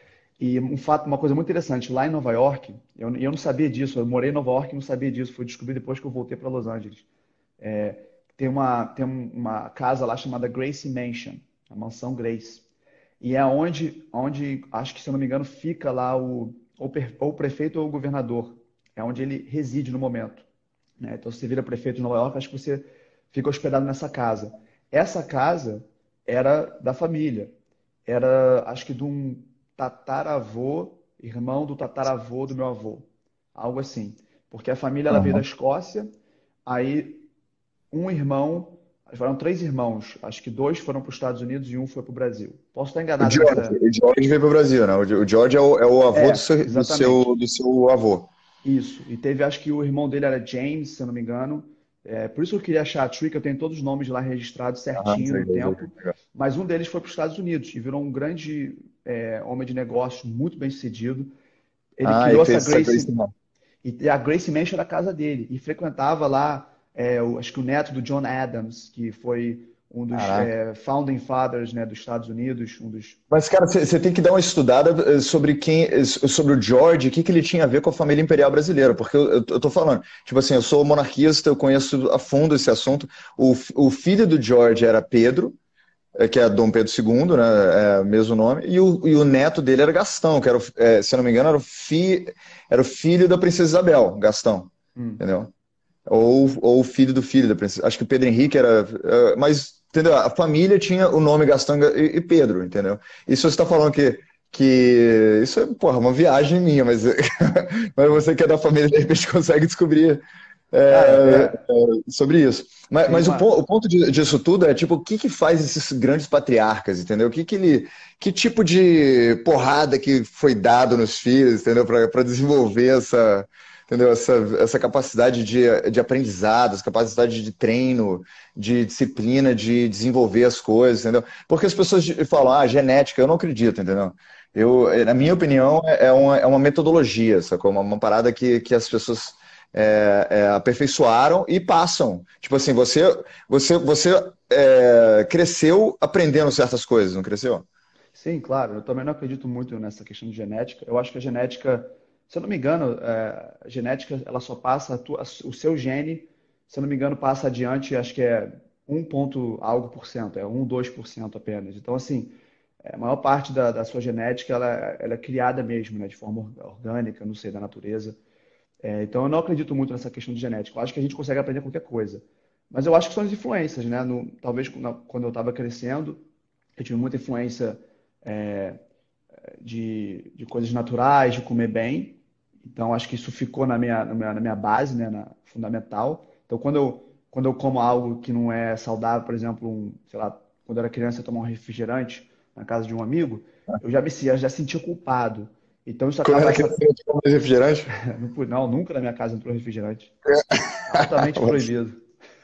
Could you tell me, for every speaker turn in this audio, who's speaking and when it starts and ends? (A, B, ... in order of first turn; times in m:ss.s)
0:00.4-0:07.1 A
0:07.6-0:12.6 A
0:13.2-0:20.5 A
0:21.0-0:27.5 A
0:28.1-0:36.1 A
0:35.1-0:35.4 B
0:36.7-0:37.3 A
0:37.9-0:43.8 A
0:43.2-0:48.3 B
0:46.1-0:47.3 A
0:48.6-1:01.3 A
0:55.0-0:56.1 B
1:02.0-1:03.1 A
1:02.0-1:03.3 B
1:03.8-1:13.2 A
1:10.1-1:10.5 B
1:13.3-1:25.6 B
1:26.2-1:35.5 B
1:35.0-1:35.2 A
1:36.1-2:27.7 B
1:50.9-1:51.6 A
1:53.1-1:53.5 A
2:28.1-2:48.2 A
2:48.8-2:56.2 A
2:56.8-2:58.8 A
2:59.6-3:16.8 A
3:16.2-3:17.9 B
3:17.9-3:20.1 A
3:20.5-3:21.7 B
3:20.9-3:22.0 A